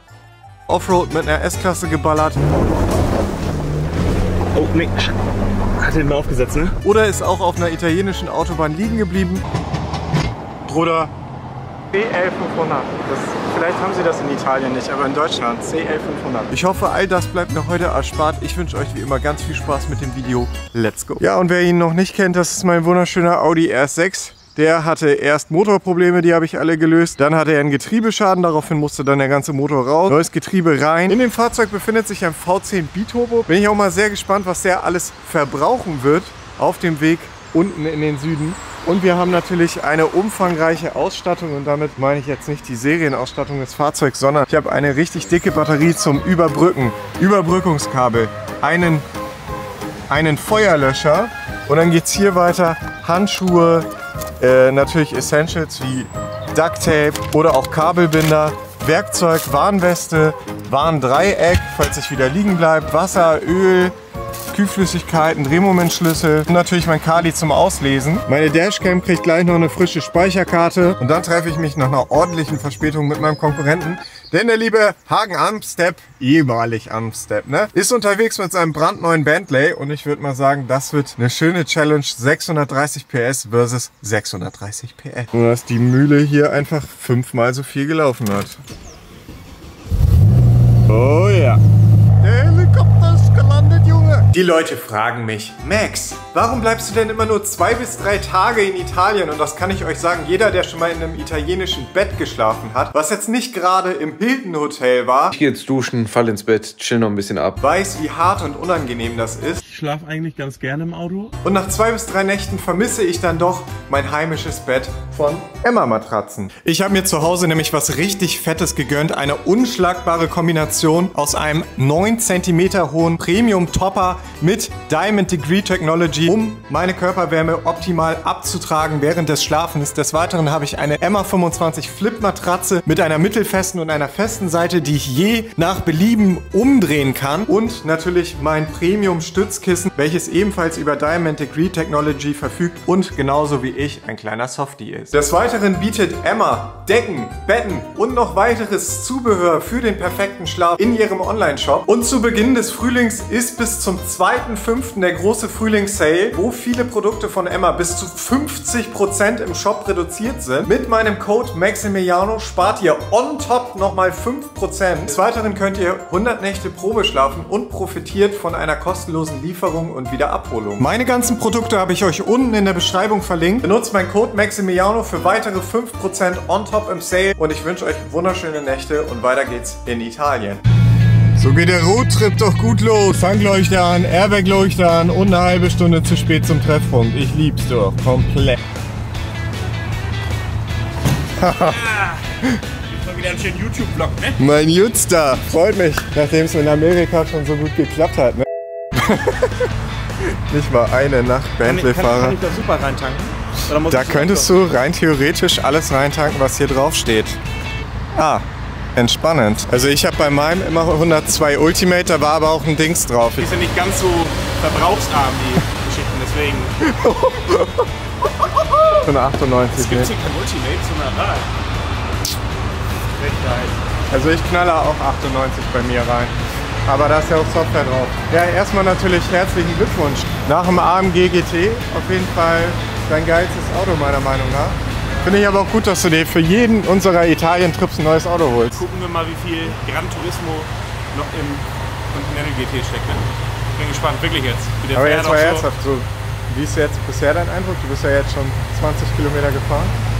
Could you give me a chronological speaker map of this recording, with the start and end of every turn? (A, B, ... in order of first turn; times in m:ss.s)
0:00.7-0:02.6 A
0:04.5-0:05.2 B
0:05.8-0:06.8 B
0:06.8-0:09.4 A
0:10.7-0:11.1 A
0:11.9-0:49.0 A
0:50.1-0:53.9 A
0:54.4-1:03.9 A
1:04.5-1:28.6 A
1:30.9-1:31.6 A
1:32.2-1:45.4 A
1:45.3-1:47.6 C
1:47.6-1:49.6 A
1:49.6-1:51.3 B
1:51.4-3:00.6 A
3:01.4-3:08.6 A
3:11.4-3:11.8 A
3:11.4-3:12.2 B
3:12.8-3:14.4 B
3:14.4-3:19.7 A
3:20.3-3:22.4 A
3:21.6-3:24.5 B
3:23.9-3:27.4 A
3:28.1-3:28.4 A
3:29.0-3:33.5 A
3:33.4-3:36.7 B
3:36.8-3:37.8 A
3:38.6-3:38.9 B
3:39.0-3:40.1 A
3:39.7-3:41.5 B
3:43.2-3:43.8 B
3:44.1-3:58.8 A
3:58.7-4:05.7 B
4:04.9-4:09.9 A